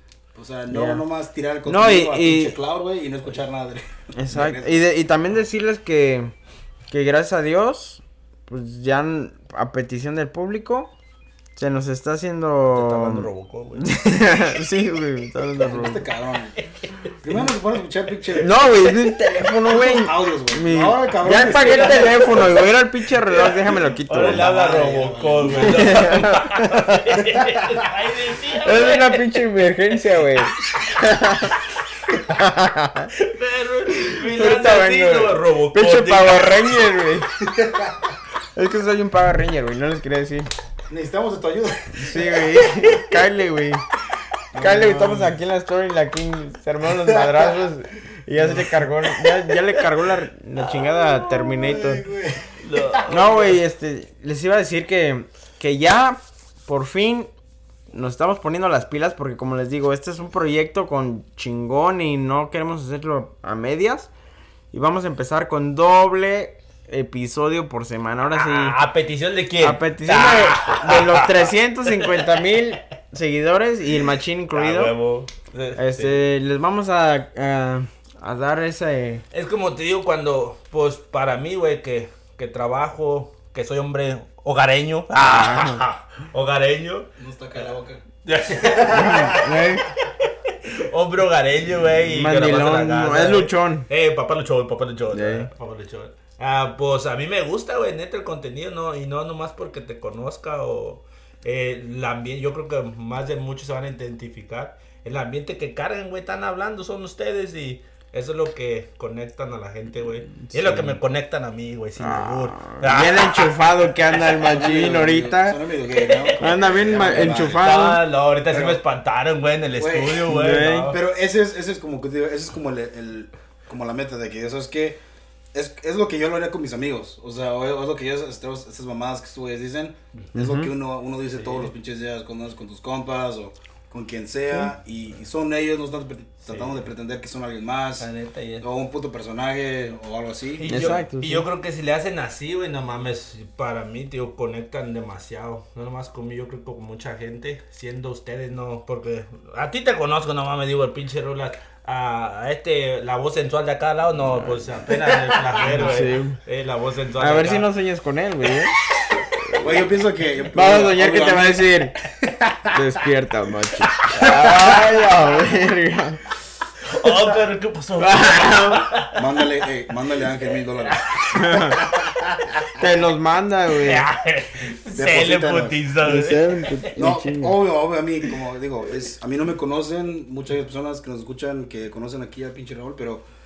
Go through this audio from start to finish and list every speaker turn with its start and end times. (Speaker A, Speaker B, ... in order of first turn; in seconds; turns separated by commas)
Speaker A: 0.3-4.8, Speaker B: 0.7-1.0, Speaker B: 1.6-2.6, Speaker B: 4.2-6.3, Speaker B: 6.9-10.9, Speaker B: 11.6-16.1, Speaker C: 12.7-13.9, Speaker A: 15.6-16.6, Speaker C: 16.6-17.1, Speaker A: 17.2-18.9, Speaker B: 18.4-24.5, Speaker A: 19.6-22.7, Speaker C: 21.4-22.5, Speaker C: 23.2-29.2, Speaker A: 24.1-26.1, Speaker B: 25.5-27.1, Speaker B: 28.6-31.6, Speaker B: 32.2-33.1, Speaker C: 33.2-36.7, Speaker B: 33.9-37.3, Speaker A: 37.4-38.1, Speaker B: 38.5-40.5, Speaker A: 40.9-42.6, Speaker B: 41.9-43.8, Speaker C: 42.6-43.1, Speaker A: 44.5-45.3, Speaker B: 44.6-52.1, Speaker A: 47.0-47.7, Speaker C: 48.4-48.8, Speaker C: 50.6-51.9, Speaker A: 51.7-53.0, Speaker C: 52.5-53.6, Speaker B: 53.1-57.3, Speaker B: 57.9-64.1, Speaker B: 64.7-68.8, Speaker C: 68.3-72.2, Speaker B: 69.6-74.9, Speaker C: 74.5-76.2, Speaker B: 75.8-79.2, Speaker C: 79.3-87.7, Speaker B: 85.2-85.8, Speaker A: 87.2-88.0, Speaker C: 88.2-89.5, Speaker A: 88.5-89.5, Speaker B: 88.9-89.8, Speaker C: 90.2-114.6, Speaker B: 92.0-93.9, Speaker B: 95.1-95.5, Speaker B: 110.5-111.0, Speaker B: 112.0-115.6, Speaker A: 114.4-117.8, Speaker C: 115.9-121.0, Speaker B: 116.4-118.0, Speaker A: 118.5-118.8, Speaker A: 119.8-120.3, Speaker B: 120.3-120.9, Speaker A: 120.9-125.0, Speaker A: 125.5-138.1, Speaker B: 130.3-130.7, Speaker C: 131.3-131.7, Speaker C: 136.4-136.9, Speaker C: 138.0-138.7, Speaker A: 138.6-140.8, Speaker C: 140.6-157.7, Speaker B: 140.7-141.4, Speaker B: 154.2-154.7, Speaker B: 155.6-156.4, Speaker B: 157.2-158.7, Speaker B: 159.3-159.9, Speaker A: 159.6-161.7, Speaker B: 160.5-161.9, Speaker A: 162.2-162.8, Speaker B: 162.7-166.2, Speaker C: 163.9-164.7, Speaker A: 164.2-164.9, Speaker C: 166.8-169.3, Speaker B: 168.0-168.9, Speaker A: 169.1-172.6, Speaker C: 170.8-171.3, Speaker B: 171.3-171.8, Speaker B: 172.8-174.1, Speaker C: 173.8-176.9, Speaker A: 174.9-175.8, Speaker B: 176.0-177.6, Speaker A: 176.9-183.2